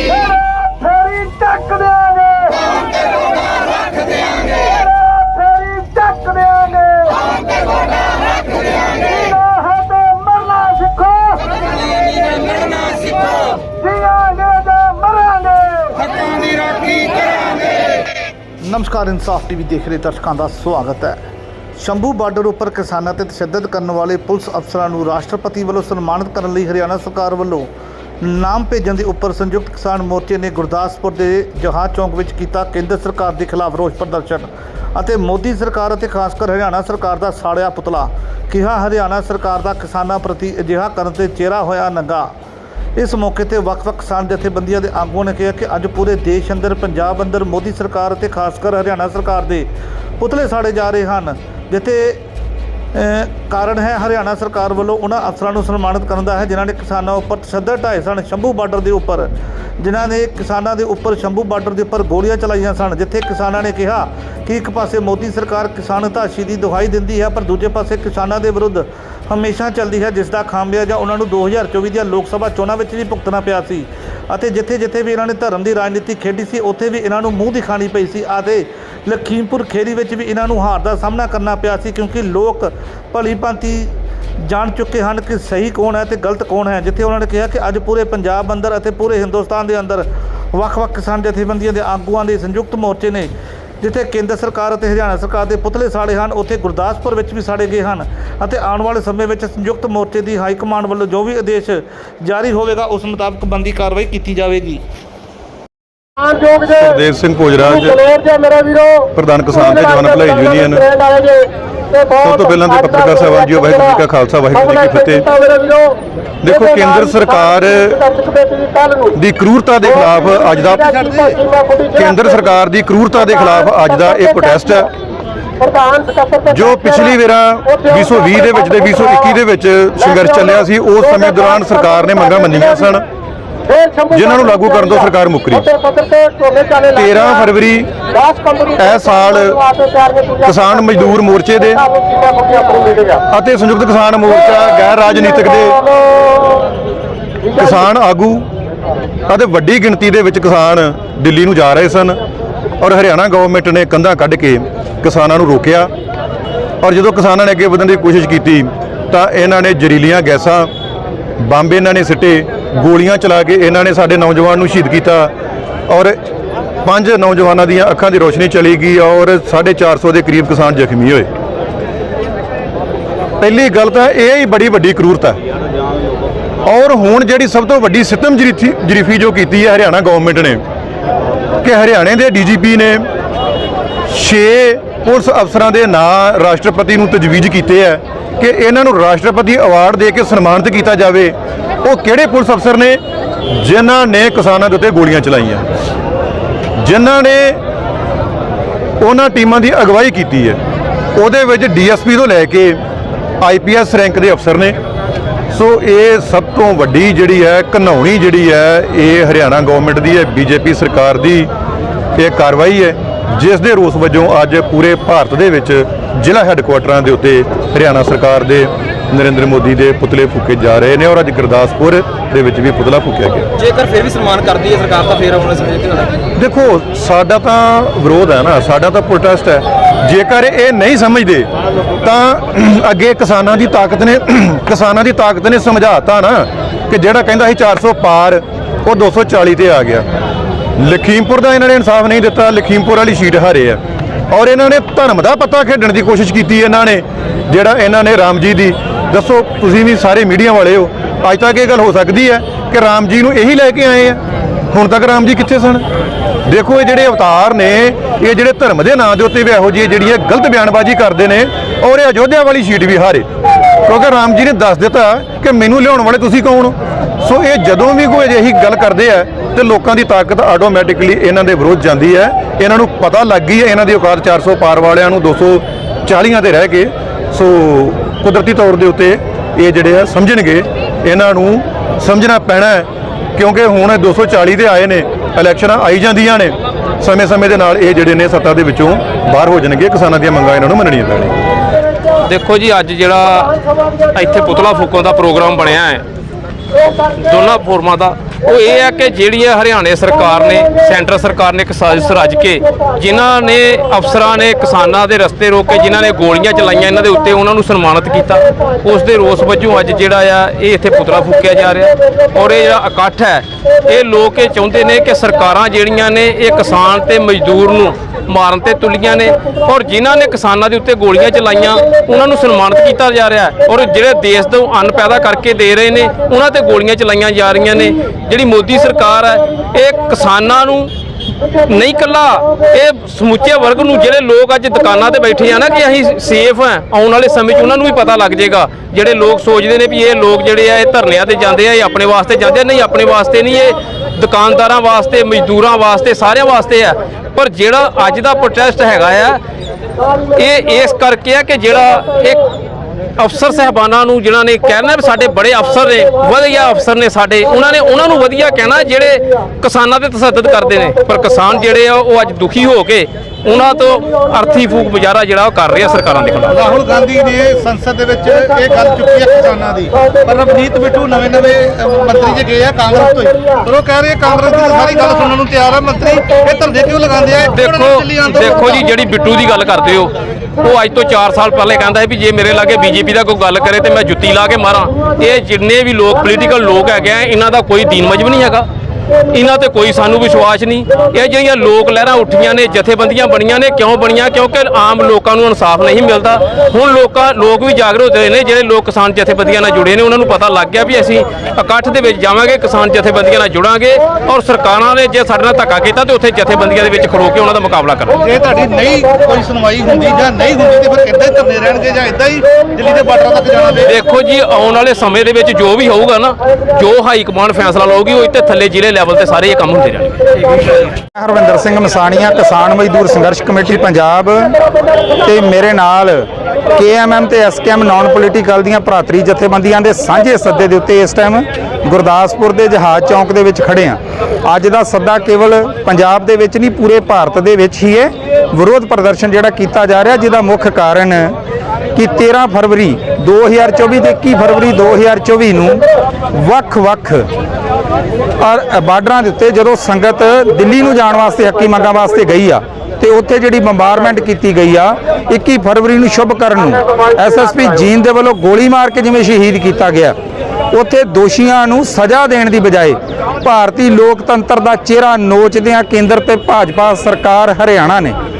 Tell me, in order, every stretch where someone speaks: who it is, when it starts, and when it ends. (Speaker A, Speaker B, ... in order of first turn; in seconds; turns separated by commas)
Speaker A: 0.9-2.6, Speaker A: 5.2-7.2, Speaker A: 9.3-10.7, Speaker A: 14.2-16.0, Speaker B: 18.6-21.2, Speaker B: 21.8-27.7, Speaker B: 28.2-42.3, Speaker B: 43.0-52.2, Speaker B: 52.9-104.8, Speaker C: 106.7-108.1, Speaker A: 108.2-108.4, Speaker C: 109.1-111.0, Speaker C: 112.1-115.3, Speaker C: 116.4-118.2, Speaker C: 119.1-124.9, Speaker A: 125.7-126.3, Speaker C: 126.4-133.0, Speaker C: 134.1-135.8, Speaker A: 136.0-136.8, Speaker C: 136.9-138.1, Speaker C: 138.7-139.7, Speaker A: 140.0-140.3, Speaker C: 140.3-141.9, Speaker A: 142.4-143.1, Speaker C: 143.3-145.9, Speaker C: 147.5-148.5, Speaker C: 149.3-152.2, Speaker C: 152.8-155.9, Speaker C: 156.8-160.7, Speaker C: 161.4-165.3, Speaker C: 165.9-166.2, Speaker C: 166.8-171.3, Speaker C: 173.4-175.4, Speaker C: 176.6-180.6, Speaker C: 181.6-183.1, Speaker C: 184.1-195.6, Speaker C: 196.8-197.6, Speaker C: 199.0-200.6, Speaker C: 201.1-202.8, Speaker C: 203.4-204.8, Speaker C: 205.5-211.5, Speaker C: 212.2-223.5, Speaker D: 223.7-226.1, Speaker C: 226.3-231.5, Speaker C: 232.0-240.1, Speaker C: 240.8-254.2, Speaker C: 254.7-255.8, Speaker C: 256.4-263.2, Speaker C: 263.8-291.4, Speaker E: 292.2-296.0, Speaker E: 296.9-349.4, Speaker E: 350.3-352.5, Speaker E: 353.2-366.6, Speaker B: 366.5-378.8, Speaker E: 377.5-388.6, Speaker E: 389.2-408.2, Speaker B: 408.1-414.0, Speaker E: 413.8-420.7, Speaker F: 421.1-424.6, Speaker F: 425.2-441.3, Speaker F: 441.9-447.2, Speaker F: 448.4-460.2, Speaker F: 460.7-468.1